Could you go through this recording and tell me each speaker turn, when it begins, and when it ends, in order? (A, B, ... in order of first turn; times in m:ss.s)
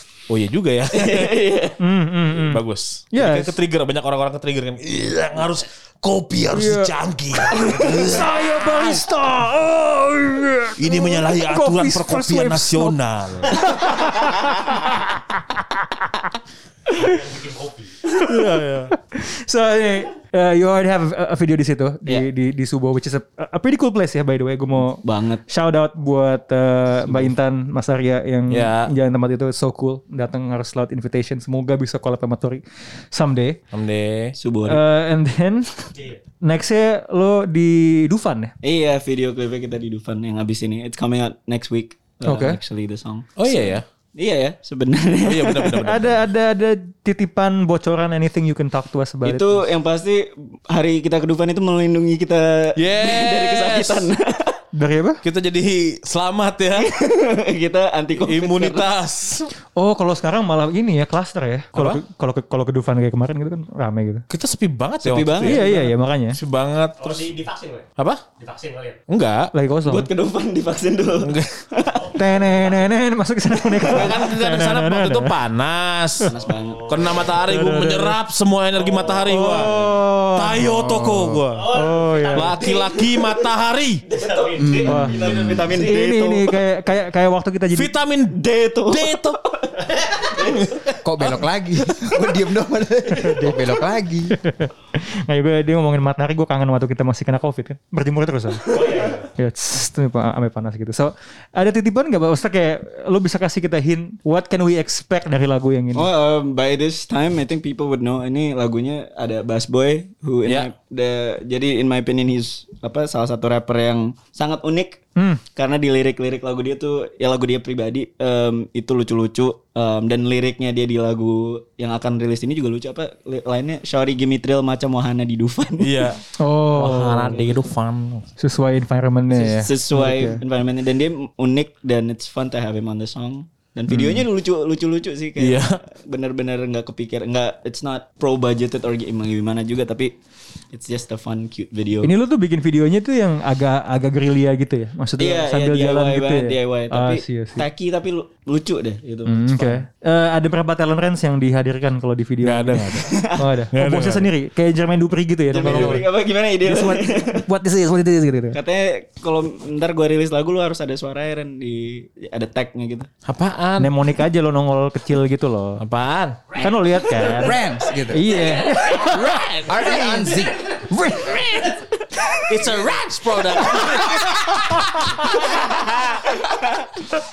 0:00.3-0:01.3 A
0:00.9-0:01.8 B
0:01.8-0:03.5 C
0:02.5-0:08.3 A
0:06.5-0:06.9 C
0:07.5-0:13.0 C
0:10.8-0:13.8 A
0:13.5-0:15.0 C
0:17.0-0:17.9 D
0:18.1-0:18.5 C
0:18.2-0:18.9 A
0:19.0-0:33.6 C
0:25.0-0:25.4 B
0:28.5-0:28.9 A
0:33.7-0:34.3 A
0:34.4-0:34.8 B
0:34.7-0:35.9 C
0:36.4-0:38.5 C
0:38.6-0:45.8 B
0:42.2-0:42.6 C
0:43.4-0:43.8 A
0:45.2-0:46.2 A
0:45.8-0:49.6 C
0:49.2-0:54.6 B
0:52.8-0:54.1 A
0:54.7-0:55.2 C
0:55.2-0:56.9 A
0:56.8-0:58.9 B
0:58.2-0:59.5 A
0:59.8-1:04.2 C
1:04.3-1:05.7 A
1:05.0-1:05.9 B
1:05.4-1:06.4 C
1:06.4-1:07.3 A
1:07.0-1:07.8 D
1:08.0-1:08.2 A
1:08.4-1:09.0 D
1:09.1-1:09.5 A
1:09.5-1:10.1 C
1:09.8-1:12.1 B
1:11.2-1:11.5 A
1:11.9-1:12.8 D
1:12.1-1:15.4 C
1:13.8-1:14.2 B
1:13.8-1:21.7 A
1:16.2-1:17.1 B
1:16.4-1:17.3 D
1:17.3-1:18.2 C
1:19.2-1:22.6 C
1:21.5-1:22.7 D
1:22.3-1:24.0 A
1:22.6-1:23.4 B
1:24.1-1:25.4 D
1:24.1-1:26.6 B
1:24.6-1:25.6 E
1:24.8-1:27.9 C
1:27.7-1:29.4 A
1:28.3-1:29.8 B
1:30.3-1:30.7 B
1:30.6-1:31.4 A
1:31.0-1:34.3 E
1:33.1-1:33.7 C
1:34.3-1:46.1 C
1:38.6-1:39.3 D
1:45.9-1:55.0 B
1:55.2-1:55.4 C
1:55.5-2:06.1 B
2:05.8-2:06.2 A
2:06.4-2:07.5 C
2:06.7-2:08.3 A
2:08.4-2:10.4 C
2:09.3-2:20.2 B
2:13.9-2:14.2 C
2:13.9-2:14.2 A
2:15.4-2:15.8 A
2:20.7-2:22.1 B
2:22.0-2:27.6 C
2:25.2-2:29.8 B
2:29.2-2:36.1 C
2:32.4-2:34.3 A
2:33.0-2:33.5 B
2:35.5-2:37.4 B
2:35.6-2:36.0 A
2:36.6-2:38.6 C
2:38.5-2:43.1 B
2:43.2-2:43.9 A
2:43.8-2:45.8 C
2:45.8-2:46.6 A
2:46.5-2:47.3 B
2:46.6-2:49.4 C
2:47.2-2:48.4 E
2:48.7-2:49.9 A
2:49.4-2:50.6 E
2:49.8-2:50.5 B
2:50.9-2:51.8 C
2:52.5-2:54.9 A
2:56.3-2:56.6 B